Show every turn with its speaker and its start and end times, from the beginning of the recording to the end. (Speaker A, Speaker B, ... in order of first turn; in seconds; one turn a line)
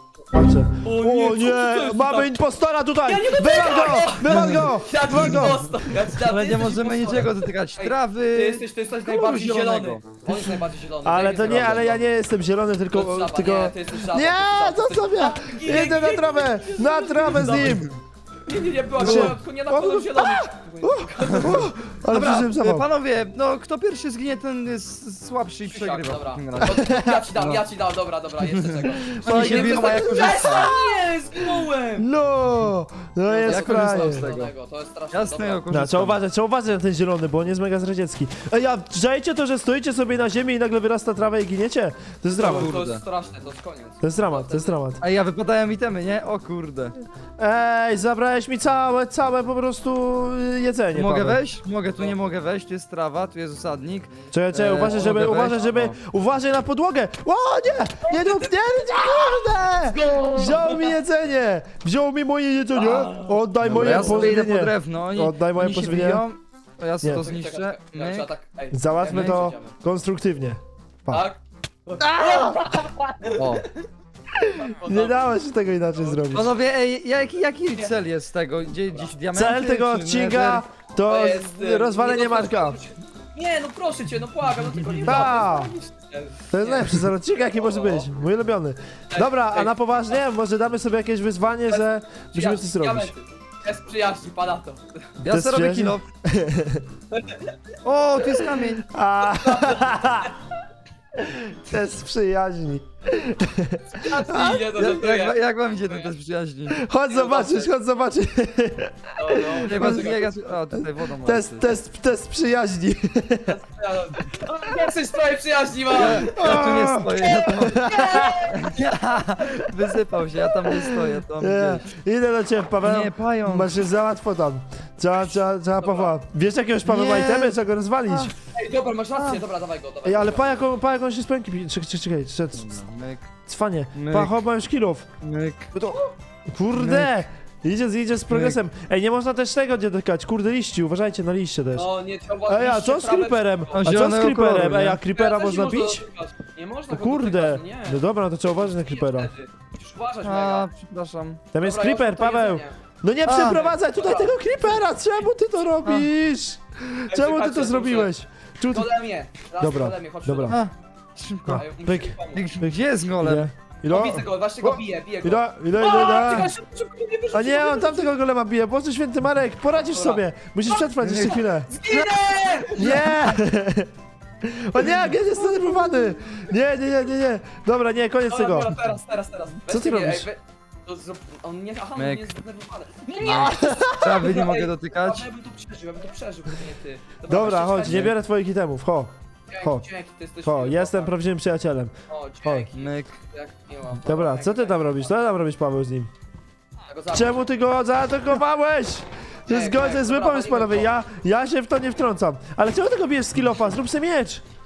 Speaker A: 0.3-6.1
Speaker B: 0.8-2.4
Speaker B: 3.0-12.0
Speaker C: 4.3-4.7
Speaker C: 6.3-10.0
Speaker A: 10.3-17.9
Speaker C: 11.4-11.9
Speaker B: 12.9-17.9
Speaker B: 18.5-21.7
Speaker A: 19.0-22.9
Speaker C: 19.0-19.4
Speaker C: 21.3-27.6
Speaker B: 25.6-32.1
Speaker A: 26.6-27.2
Speaker C: 28.5-30.7
Speaker A: 29.1-34.2
Speaker B: 33.2-35.6
Speaker C: 33.5-34.5
Speaker C: 35.1-36.2
Speaker A: 35.7-42.7
Speaker B: 42.3-44.8
Speaker C: 42.4-43.0
Speaker A: 44.0-45.0
Speaker C: 45.0-47.0
Speaker A: 47.4-51.4
Speaker C: 50.9-56.0
Speaker A: 54.3-66.2
Speaker B: 58.0-61.0
Speaker B: 62.7-64.4
Speaker C: 63.6-68.3
Speaker B: 67.2-69.8
Speaker A: 68.7-71.3
Speaker C: 69.1-69.4
Speaker B: 71.1-73.8
Speaker A: 72.0-72.8
Speaker C: 73.4-73.7
Speaker A: 74.4-76.5
Speaker B: 74.4-75.3
Speaker B: 75.9-76.5
Speaker C: 76.3-80.7
Speaker A: 79.3-82.8
Speaker B: 81.1-88.1
Speaker C: 84.8-85.3
Speaker A: 85.0-85.7
Speaker A: 86.5-93.1
Speaker B: 89.1-90.2
Speaker B: 91.7-95.1
Speaker C: 95.2-96.1
Speaker A: 95.2-96.8
Speaker B: 97.1-97.6
Speaker C: 97.8-98.9
Speaker B: 98.3-98.6
Speaker A: 98.9-100.3
Speaker B: 99.2-100.3
Speaker A: 101.2-104.8
Speaker B: 103.9-106.1
Speaker C: 104.8-106.8
Speaker A: 106.7-110.2
Speaker B: 107.1-107.7
Speaker B: 109.2-110.5
Speaker C: 109.7-111.8
Speaker A: 110.7-113.6
Speaker B: 113.5-116.5
Speaker C: 115.9-121.9
Speaker A: 116.0-118.4
Speaker B: 117.2-118.8
Speaker A: 120.5-128.3
Speaker C: 122.8-123.8
Speaker B: 125.8-126.2
Speaker C: 126.8-128.3
Speaker B: 128.5-130.7
Speaker C: 129.2-129.4
Speaker A: 130.1-132.8
Speaker C: 132.6-133.3
Speaker A: 133.5-135.1
Speaker C: 133.9-134.3
Speaker C: 135.2-135.7
Speaker A: 135.7-141.9
Speaker C: 136.8-137.2
Speaker C: 138.3-138.6
Speaker B: 141.7-143.8
Speaker A: 142.5-146.0
Speaker C: 143.7-145.0
Speaker B: 145.1-148.0
Speaker A: 146.9-149.3
Speaker B: 148.6-150.7
Speaker C: 150.2-151.4
Speaker A: 151.5-158.9
Speaker B: 151.6-152.8
Speaker C: 153.2-153.7
Speaker B: 153.4-154.8
Speaker C: 155.8-156.1
Speaker B: 157.1-158.1
Speaker B: 158.7-160.6
Speaker A: 159.6-160.6
Speaker C: 160.5-161.7
Speaker A: 161.5-166.5
Speaker B: 161.6-162.5
Speaker C: 162.3-163.5
Speaker B: 163.9-168.2
Speaker A: 167.3-171.7
Speaker B: 169.7-173.0
Speaker C: 171.0-173.4
Speaker A: 172.8-173.9
Speaker A: 174.4-178.8
Speaker B: 175.3-176.1
Speaker B: 178.3-188.1
Speaker A: 179.7-180.3
Speaker C: 182.0-182.3
Speaker C: 183.2-185.3
Speaker A: 183.3-184.1
Speaker A: 187.3-189.8
Speaker C: 187.9-188.2
Speaker B: 189.5-191.2
Speaker A: 190.4-191.9
Speaker B: 192.1-195.1
Speaker C: 192.8-193.2
Speaker A: 194.0-196.1
Speaker B: 196.9-197.4
Speaker A: 197.1-204.4
Speaker B: 199.5-200.9